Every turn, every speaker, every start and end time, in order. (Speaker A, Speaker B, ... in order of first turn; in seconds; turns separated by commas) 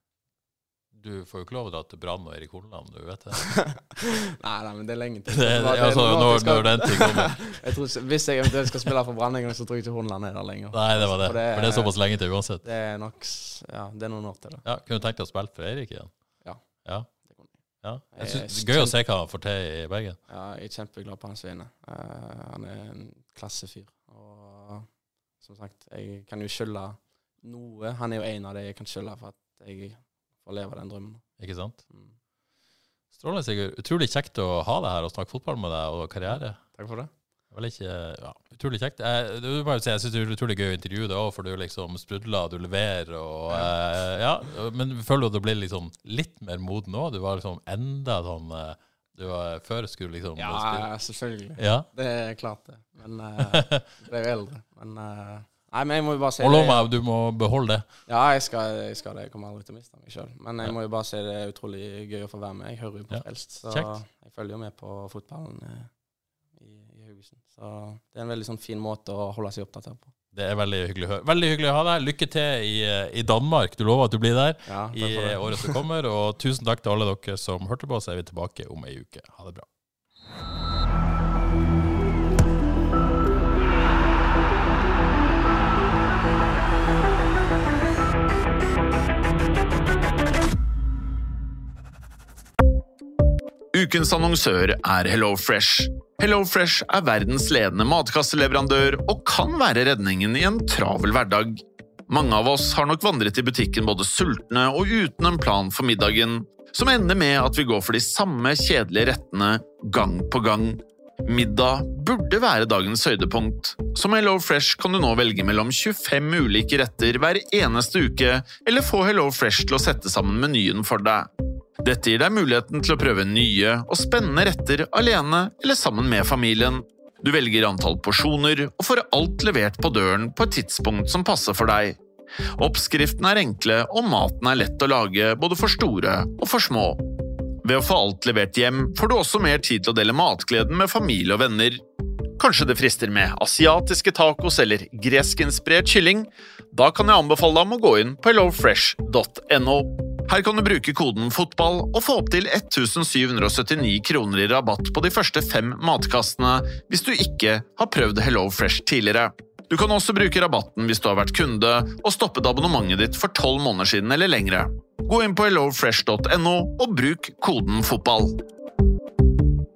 Speaker A: 0.9-3.6, Speaker B: 3.5-11.9, Speaker A: 5.3-7.7, Speaker A: 10.7-12.6, Speaker B: 12.6-14.6, Speaker A: 14.7-16.1, Speaker A: 16.8-17.1, Speaker B: 17.1-17.5, Speaker A: 17.8-20.2, Speaker B: 18.1-19.0, Speaker B: 20.3-24.9, Speaker B: 25.4-31.3, Speaker A: 31.4-31.8, Speaker B: 31.9-32.1, Speaker A: 33.1-36.7, Speaker B: 36.3-37.1, Speaker A: 37.5-50.9, Speaker B: 50.4-56.9, Speaker A: 51.6-51.9, Speaker A: 53.5-53.9, Speaker A: 56.4-57.9, Speaker B: 58.1-65.9, Speaker A: 63.1-63.9, Speaker B: 66.6-70.1, Speaker A: 70.3-79.7, Speaker B: 74.7-75.8, Speaker C: 93.7-121.3, Speaker C: 121.8-132.0, Speaker C: 132.6-137.0, Speaker C: 137.6-141.8, Speaker C: 142.4-168.4